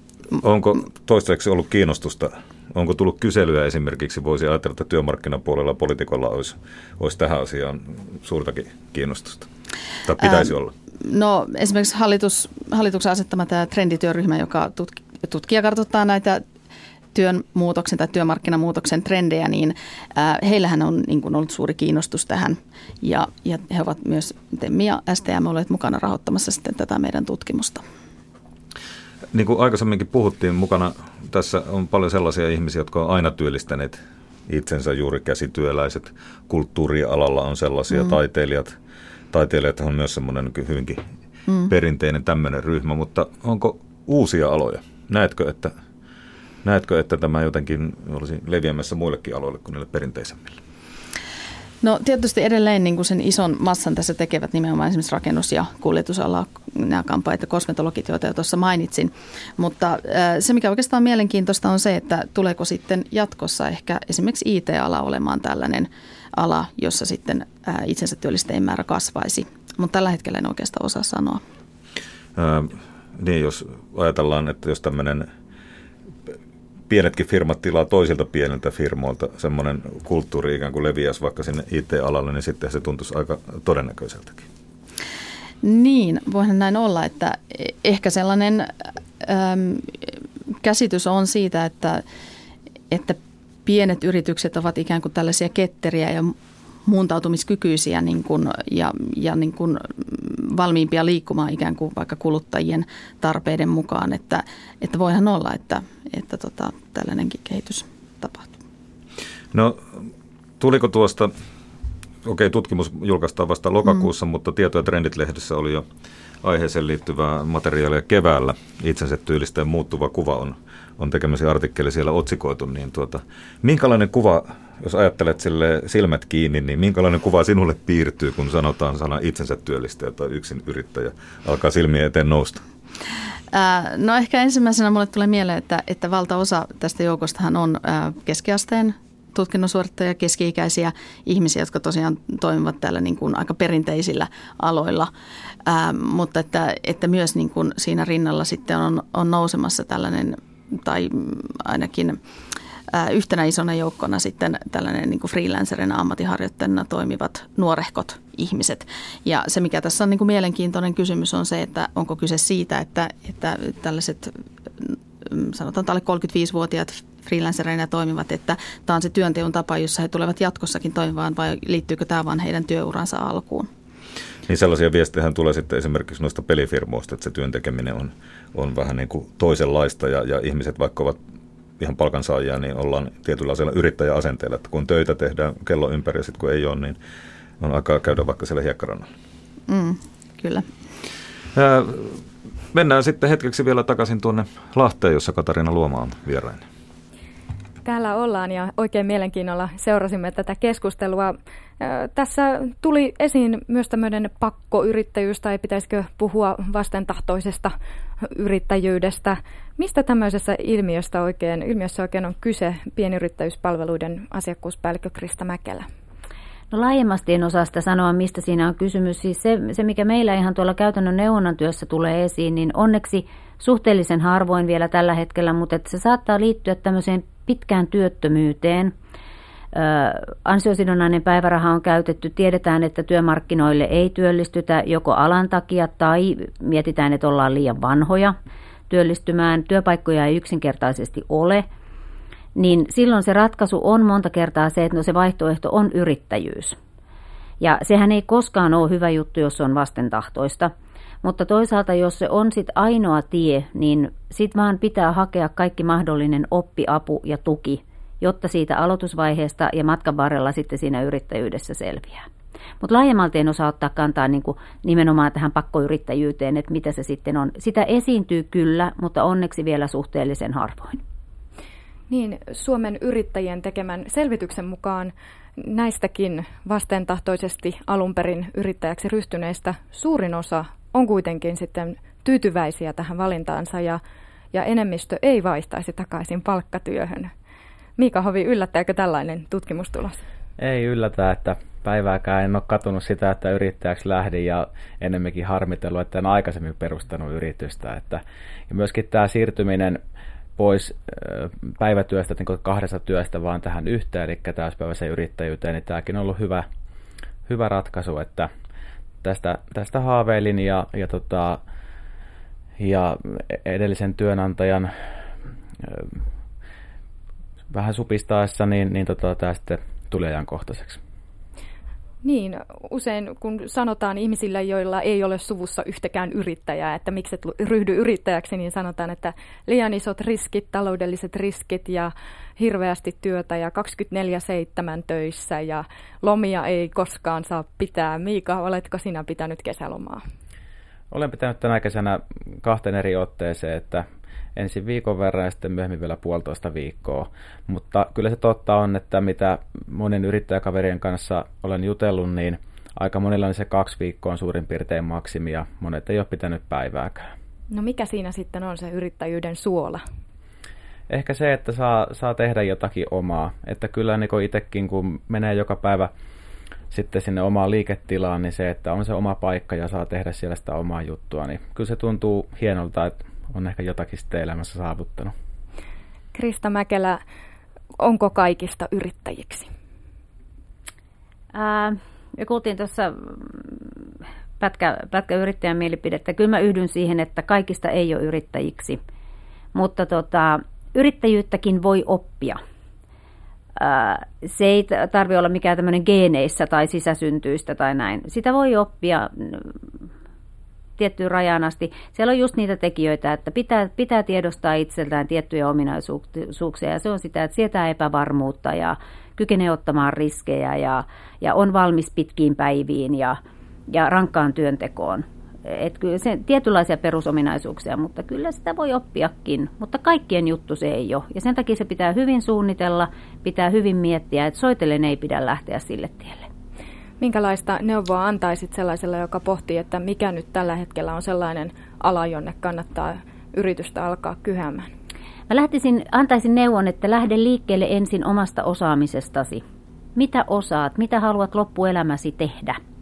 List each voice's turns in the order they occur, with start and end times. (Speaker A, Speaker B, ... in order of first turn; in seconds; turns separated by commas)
Speaker A: 0.4-9.5, Speaker A: 10.1-10.7, Speaker B: 11.0-16.4, Speaker B: 17.1-27.8, Speaker A: 29.3-38.8, Speaker A: 39.3-41.0, Speaker A: 41.7-45.7, Speaker A: 46.6-50.6, Speaker B: 51.8-71.4, Speaker A: 72.4-75.3, Speaker A: 76.9-84.5, Speaker B: 85.6-90.0, Speaker B: 90.6-92.0, Speaker B: 92.9-96.3, Speaker B: 96.9-108.5, Speaker A: 109.5-110.0, Speaker A: 110.6-111.3, Speaker A: 112.2-115.8, Speaker A: 116.4-132.6, Speaker B: 133.5-145.1, Speaker B: 145.7-152.2, Speaker B: 152.9-173.7, Speaker A: 174.5-181.2, Speaker A: 181.8-187.0, Speaker A: 187.6-189.1, Speaker B: 189.7-190.7, Speaker A: 191.6-196.6, Speaker C: 197.8-215.9, Speaker D: 216.7-228.9, Speaker D: 229.7-238.3, Speaker D: 238.9-241.7, Speaker D: 242.6-246.8, Speaker D: 247.6-250.7, Speaker D: 251.2-262.3, Speaker D: 262.8-271.0, Speaker C: 272.1-284.0, Speaker C: 284.5-287.3, Speaker C: 288.0-290.2, Speaker E: 290.6-300.0, Speaker E: 300.6-306.7, Speaker E: 307.5-308.5, Speaker E: 309.2-311.6, Speaker E: 312.8-314.9, Speaker E: 315.9-316.1, Speaker E: 317.7-321.0, Speaker C: 322.2-340.2, Speaker E: 341.1-344.1, Speaker E: 344.6-357.2, Speaker C: 357.7-360.0, Speaker E: 361.1-366.1, Speaker E: 366.9-375.3, Speaker C: 376.3-377.2, Speaker C: 378.0-379.7, Speaker D: 381.5-383.9, Speaker D: 384.6-389.0, Speaker D: 389.7-392.6, Speaker D: 393.8-399.7, Speaker D: 401.0-426.5, Speaker C: 427.2-434.9, Speaker D: 435.5-439.6, Speaker D: 440.1-442.8